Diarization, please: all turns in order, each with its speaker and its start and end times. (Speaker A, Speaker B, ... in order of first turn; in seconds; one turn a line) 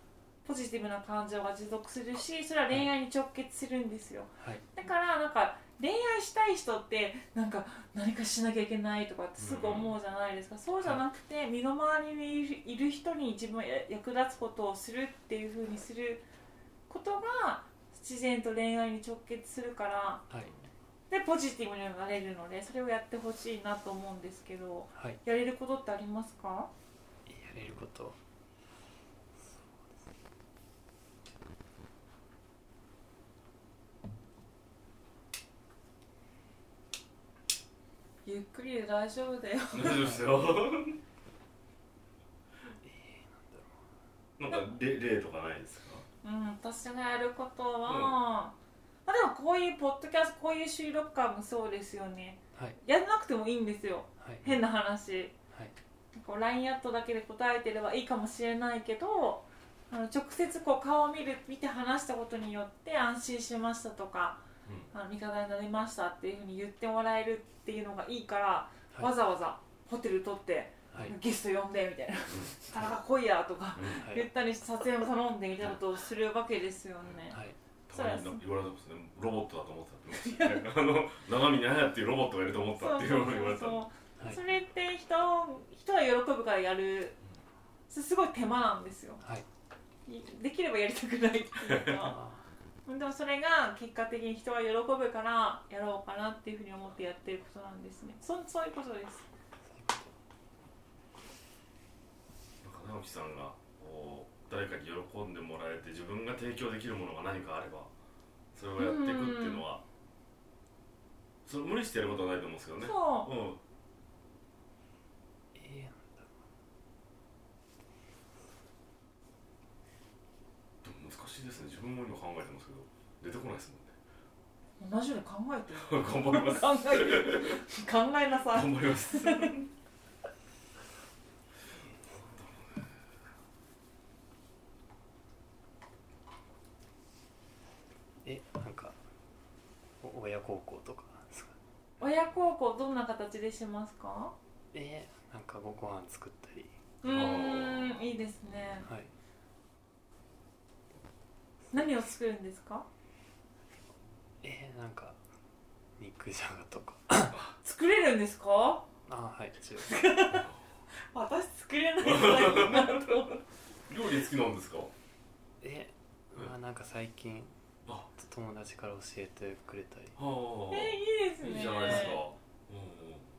Speaker A: 0.4-16.2
Speaker B: 4.4-4.6
Speaker C: 9.4-9.9
Speaker A: 16.9-20.2
Speaker A: 21.1-26.7
Speaker B: 24.9-25.2
Speaker B: 27.3-28.2
Speaker B: 29.4-29.8
Speaker A: 38.2-40.1
Speaker C: 39.7-41.0
Speaker B: 42.8-43.8
Speaker C: 44.4-46.0
Speaker A: 46.2-48.5
Speaker C: 47.9-48.1
Speaker A: 49.0-55.3
Speaker B: 52.5-52.8
Speaker B: 54.2-54.5
Speaker A: 56.1-77.4
Speaker B: 70.9-71.2
Speaker C: 72.3-72.5
Speaker C: 73.8-74.0
Speaker B: 74.0-74.3
Speaker B: 77.3-77.6
Speaker C: 77.9-83.8
Speaker A: 77.9-78.4
Speaker A: 80.1-80.6
Speaker A: 82.7-87.2
Speaker A: 87.9-89.2
Speaker B: 89.2-89.5
Speaker A: 90.1-92.2
Speaker C: 91.7-92.0
Speaker B: 92.0-92.4
Speaker A: 92.8-99.3
Speaker B: 99.7-100.1
Speaker C: 102.6-107.9
Speaker C: 108.5-109.8
Speaker A: 108.8-109.6
Speaker C: 111.4-113.6
Speaker A: 112.8-113.3
Speaker B: 115.5-116.3
Speaker C: 120.8-123.9
Speaker A: 124.8-129.5
Speaker C: 125.8-127.6
Speaker C: 128.5-129.7
Speaker C: 132.2-132.9
Speaker B: 138.2-138.9
Speaker B: 140.0-141.6
Speaker A: 142.0-144.3
Speaker B: 144.7-146.7
Speaker A: 147.0-148.9
Speaker C: 147.0-147.9
Speaker B: 148.8-149.1
Speaker A: 151.7-152.8
Speaker B: 154.4-155.2
Speaker B: 156.0-157.4
Speaker A: 157.6-158.9
Speaker B: 159.1-160.0
Speaker A: 159.8-160.5
Speaker A: 161.1-163.4
Speaker C: 162.0-163.2
Speaker C: 163.9-164.9
Speaker B: 165.6-167.5
Speaker B: 168.1-170.2
Speaker C: 170.2-173.3
Speaker A: 170.7-172.2